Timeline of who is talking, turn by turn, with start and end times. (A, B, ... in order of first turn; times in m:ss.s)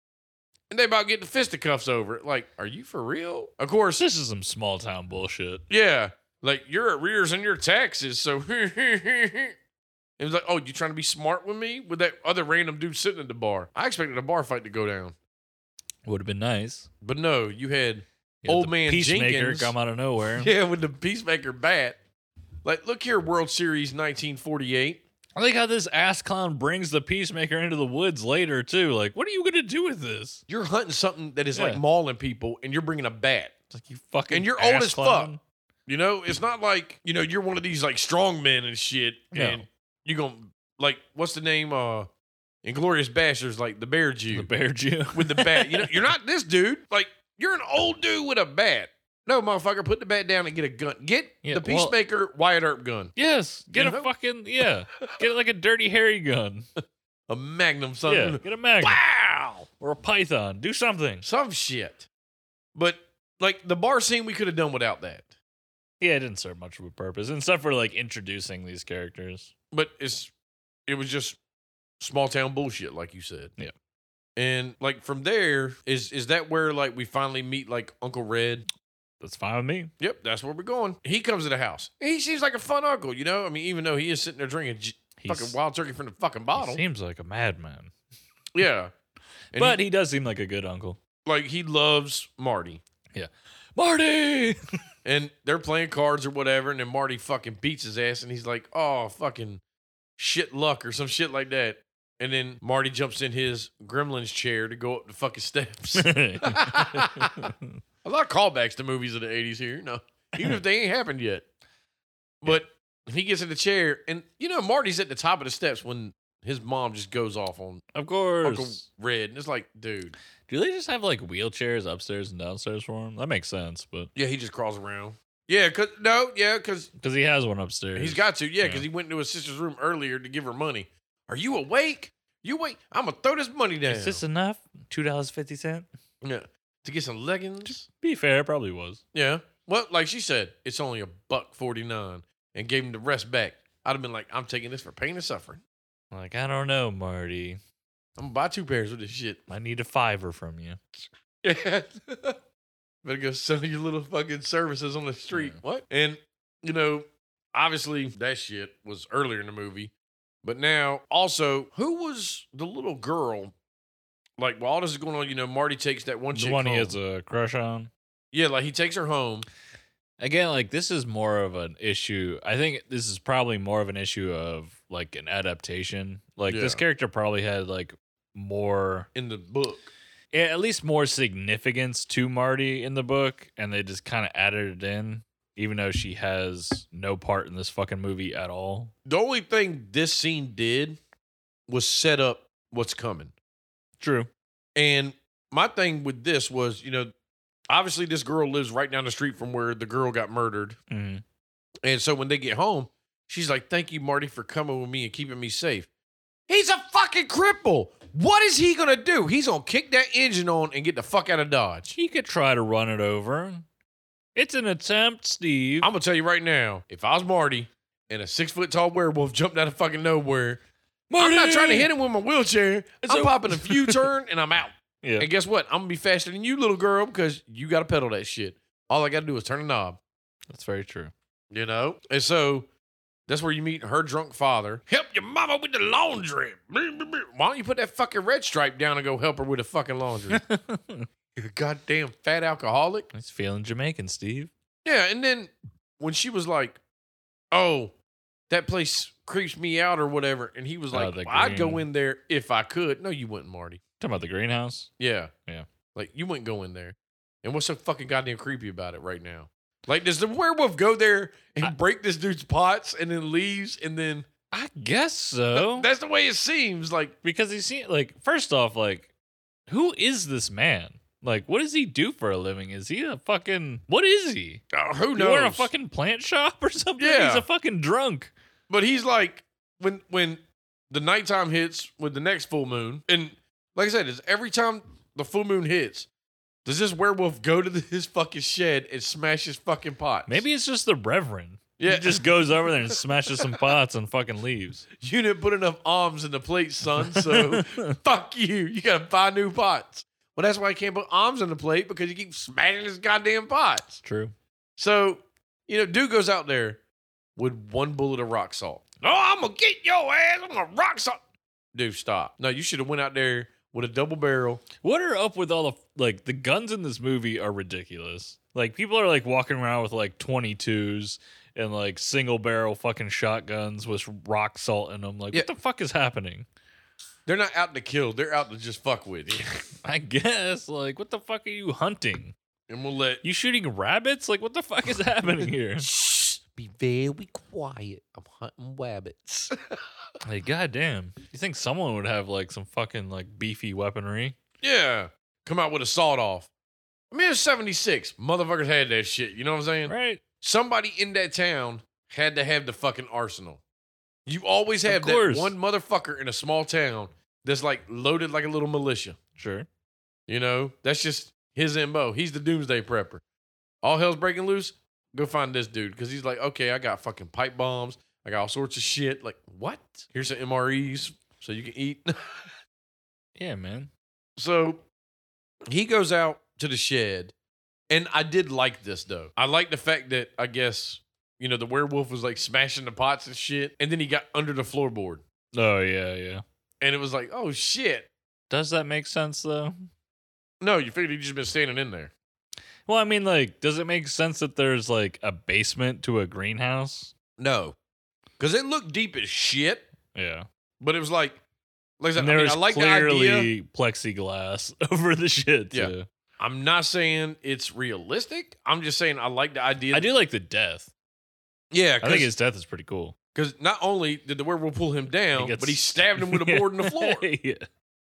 0:00.7-0:04.0 A
0:04.0-0:05.6 B
0:05.7-0:09.5 A
0:10.2-0:15.1 A
0:16.0-0:16.9 B
0:17.0-0:19.7 A
0:18.4-0:20.5 B
0:20.2-0:22.0 A
0:22.6-0:25.0 A
0:25.4-0:30.4 B
0:30.5-0:33.5 A
0:31.5-0:31.8 B
0:33.7-0:35.4 B
0:34.3-0:35.3 A
0:35.9-0:42.1 A
0:39.3-0:39.6 B
0:42.6-0:44.5 A
0:44.3-0:46.1 B
0:45.1-0:53.1 A
0:51.4-0:51.9 B
0:53.2-0:56.6 B
0:53.7-0:54.1 A
0:57.3-0:59.7 A
0:58.1-0:59.0 B
0:59.7-1:01.2 B
1:01.2-1:02.1 A
1:02.7-1:05.3 A
1:06.0-1:09.5 B
1:09.7-1:10.3 A
1:10.9-1:11.4 A
1:12.0-1:13.5 A
1:14.4-1:18.6 A
1:19.2-1:19.9 B
1:20.0-1:26.8 A
1:25.2-1:25.6 B
1:26.5-1:27.9 B
1:28.5-1:28.9 A
1:29.5-1:29.8 A
1:29.5-1:31.0 B
1:31.2-1:32.8 A
1:33.1-1:34.6 B
1:35.0-1:39.6 A
1:40.2-1:47.5 A
1:46.0-1:47.7 B
1:48.0-1:51.4 A
1:52.4-1:57.8 A
1:57.9-1:58.8 B
1:58.4-2:00.2 A
2:00.5-2:04.1 B
2:04.1-2:06.9 A
2:07.0-2:08.9 B
2:08.0-2:14.2 A
2:13.9-2:15.9 B
2:16.2-2:17.9 A
2:17.6-2:19.0 B
2:19.1-2:25.6 A
2:26.1-2:27.6 B
2:28.2-2:29.4 A
2:29.5-2:30.8 B
2:31.4-2:32.4 A
2:33.0-2:39.9 A
2:35.3-2:35.6 B
2:40.4-2:43.5 A
2:44.4-2:47.0 A
2:46.3-2:47.9 B
2:48.3-2:49.4 A
2:50.2-2:59.1 B
2:56.5-2:56.8 A
2:59.1-2:59.9 A
3:00.3-3:08.9 B
3:09.0-3:11.0 A
3:11.7-3:13.3 A
3:14.0-3:14.3 B
3:14.8-3:17.1 A
3:17.7-3:20.8 A
3:20.9-3:21.2 B
3:21.8-3:25.9 A
3:26.5-3:31.9 A
3:31.9-3:33.6 B
3:34.3-3:35.9 B
3:35.8-3:40.6 A
3:41.1-3:41.9 B
3:41.2-3:50.0 A
3:43.0-3:44.1 B
3:45.0-3:45.3 B
3:50.5-3:51.1 B
3:51.5-3:52.7 A
3:53.3-4:00.4 A
4:00.3-4:01.1 B
4:01.4-4:03.1 A
4:03.1-4:04.5 B
4:04.8-4:06.8 A
4:07.5-4:07.9 A
4:08.5-4:13.8 A
4:10.9-4:11.8 B
4:14.0-4:14.9 B
4:15.0-4:15.3 A
4:15.9-4:24.3 A
4:24.5-4:25.9 B
4:25.5-4:27.1 A
4:27.2-4:29.1 B
4:29.7-4:34.6 B
4:34.7-4:35.7 A
4:35.1-4:38.3 B
4:37.0-4:37.4 A
4:38.7-4:46.1 A
4:46.6-4:50.4 A
4:50.3-4:54.8 B
4:51.8-4:52.5 A
4:55.0-5:04.0 A
4:57.0-4:57.9 B
5:04.0-5:04.3 B
5:04.8-5:06.8 A
5:07.4-5:11.2 A
5:11.7-5:14.6 A
5:14.8-5:26.5 B
5:27.2-5:29.6 A
5:29.8-5:32.3 B
5:32.7-5:33.2 A
5:33.2-5:35.9 B
5:35.8-5:39.6 A
5:40.2-5:44.4 B
5:44.6-5:46.5 A
5:47.1-5:53.6 A
5:49.9-5:50.2 B
5:54.2-5:59.2 A
5:54.8-5:55.5 B
5:59.4-5:59.7 B
6:00.3-6:03.2 A
6:03.8-6:12.4 A
6:13.4-6:13.9 B
6:14.4-6:14.8 A
6:15.7-6:17.3 A
6:17.9-6:25.2 A
6:25.5-6:26.4 B
6:26.8-6:28.1 A
6:28.5-6:29.8 B
6:30.6-6:32.1 A
6:32.8-6:37.1 B
6:37.4-6:37.8 A
6:38.4-6:39.9 A
6:40.1-6:40.4 B
6:40.8-6:41.4 A
6:42.0-6:43.5 A
6:42.2-6:46.0 B
6:45.7-6:50.1 A
6:49.9-6:50.9 B
6:51.7-6:52.3 A
6:52.0-6:53.1 B
6:53.3-6:57.3 A
6:55.3-6:57.7 B